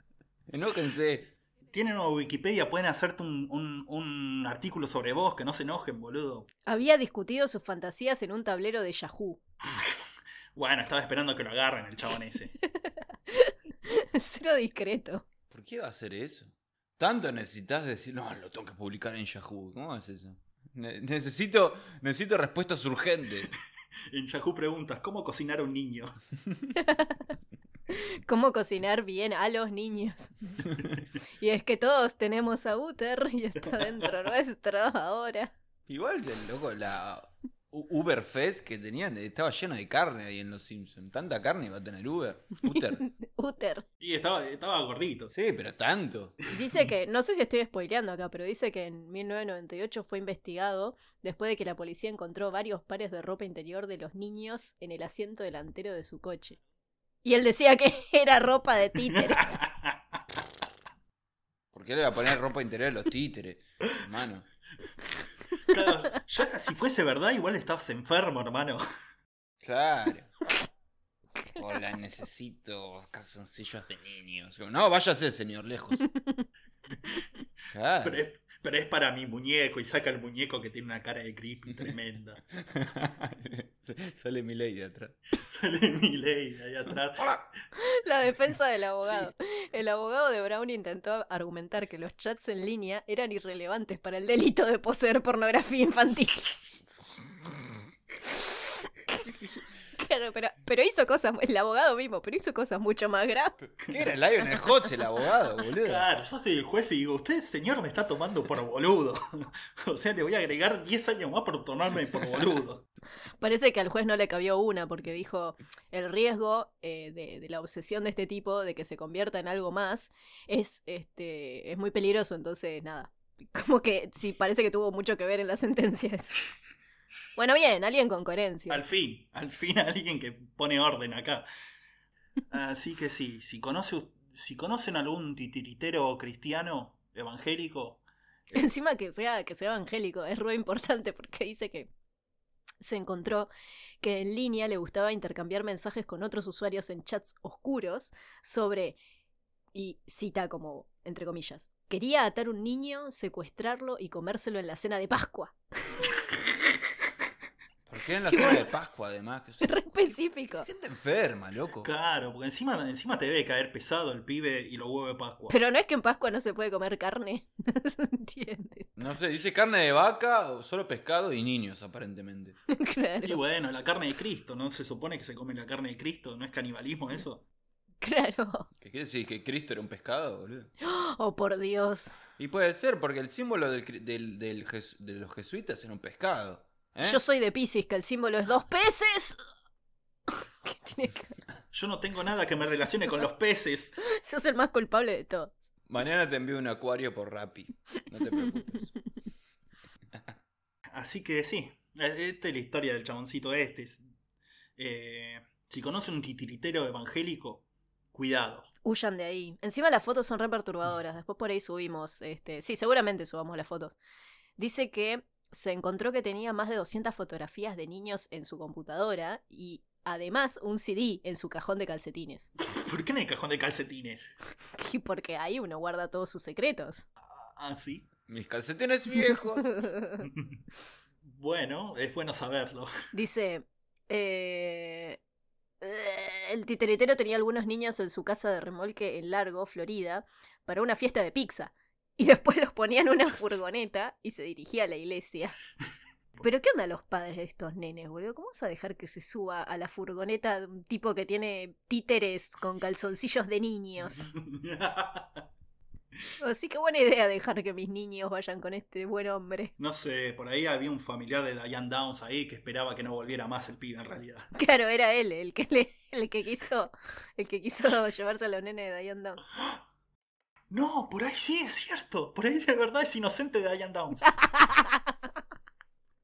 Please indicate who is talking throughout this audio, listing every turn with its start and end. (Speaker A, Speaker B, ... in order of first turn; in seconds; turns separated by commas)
Speaker A: 0.5-1.3, Speaker B: 1.7-6.5, Speaker C: 6.7-9.4, Speaker B: 10.6-12.5, Speaker C: 12.7-15.2, Speaker A: 15.5-23.5, Speaker B: 24.1-26.2, Speaker C: 26.8-27.3, Speaker C: 27.9-30.6, Speaker C: 31.4-35.5, Speaker A: 35.9-43.0, Speaker C: 42.6-43.8, Speaker B: 44.0-45.3, Speaker A: 45.3-46.4, Speaker C: 46.5-56.6, Speaker C: 57.2-59.6, Speaker B: 59.1-60.0, Speaker A: 61.7-64.5, Speaker B: 65.6-68.8, Speaker A: 69.6-70.3, Speaker A: 71.5-76.1, Speaker A: 77.7-78.2, Speaker B: 78.0-82.4, Speaker A: 82.5-85.1, Speaker B: 85.4-87.5, Speaker C: 87.8-96.8, Speaker C: 100.0-103.6, Speaker B: 103.8-104.1, Speaker A: 103.9-106.1, Speaker B: 105.8-112.8, Speaker C: 113.4-126.4, Speaker C: 127.3-128.8, Speaker B: 128.7-131.5, Speaker B: 132.5-138.6, Speaker C: 138.5-141.9, Speaker C: 142.8-143.5, Speaker C: 144.0-149.0, Speaker C: 149.7-156.0, Speaker A: 157.9-159.8, Speaker C: 158.3-158.6, Speaker C: 159.6-160.7, Speaker A: 160.6-161.9, Speaker B: 161.8-165.5, Speaker C: 165.5-168.9, Speaker A: 169.0-172.6, Speaker C: 172.7-173.4, Speaker B: 173.2-177.4, Speaker C: 178.0-178.7, Speaker A: 178.8-180.7, Speaker C: 180.8-182.1, Speaker A: 182.4-187.2, Speaker C: 187.0-189.4, Speaker C: 190.3-191.4, Speaker B: 191.7-194.0, Speaker C: 194.0-195.7, Speaker A: 195.9-198.9, Speaker C: 198.3-198.8, Speaker B: 200.9-204.0, Speaker B: 204.8-208.7, Speaker C: 208.8-214.0, Speaker C: 214.6-222.5, Speaker B: 222.6-224.3, Speaker C: 224.8-227.1, Speaker B: 227.2-228.1, Speaker A: 228.3-229.8, Speaker C: 229.7-230.2, Speaker B: 230.2-230.5, Speaker B: 231.2-232.9, Speaker C: 233.1-235.2, Speaker C: 235.8-245.6, Speaker C: 246.4-254.3, Speaker B: 254.2-255.4, Speaker C: 256.4-259.7, Speaker B: 259.8-264.5, Speaker C: 264.5-269.4, Speaker B: 270.7-274.3, Speaker C: 274.3-275.2